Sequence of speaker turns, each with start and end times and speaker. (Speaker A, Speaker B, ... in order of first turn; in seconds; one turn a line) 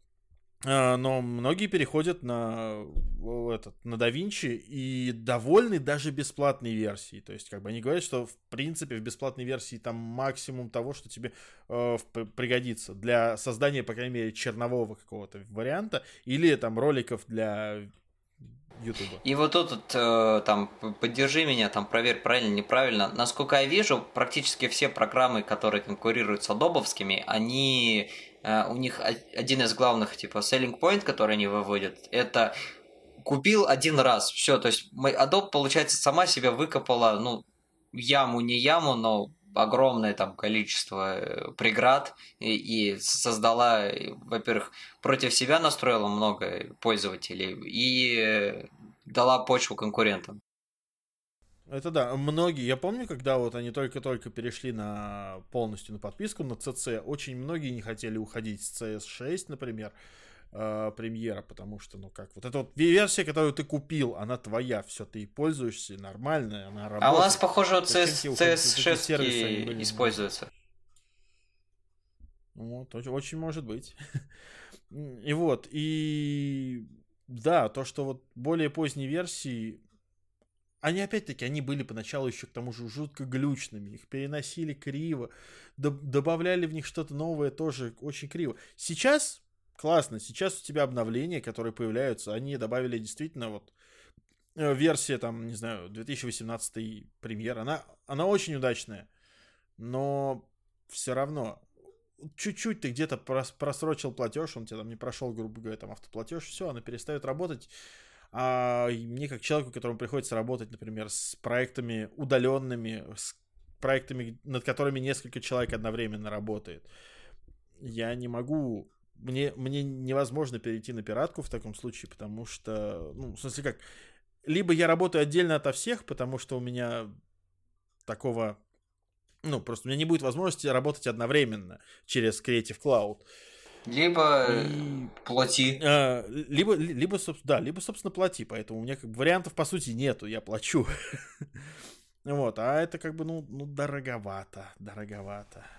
Speaker A: 0.6-17.9
Speaker A: 18.8-19.2
Speaker B: 19.2-32.5
Speaker B: 33.2-50.4
Speaker A: 51.7-60.0
Speaker A: 60.5-70.1
Speaker B: 67.0-70.5
Speaker A: 72.5-74.0
Speaker A: 74.9-79.8
Speaker A: 80.8-93.7
Speaker A: 94.6-99.1
Speaker A: 99.8-101.6
Speaker A: 102.3-107.7
Speaker A: 108.3-116.9
Speaker A: 117.8-123.8
Speaker A: 124.5-127.1
Speaker A: 128.1-128.6
Speaker A: 129.4-133.2
Speaker B: 133.9-135.8
Speaker A: 134.5-135.1
Speaker A: 135.8-140.9
Speaker A: 142.2-145.7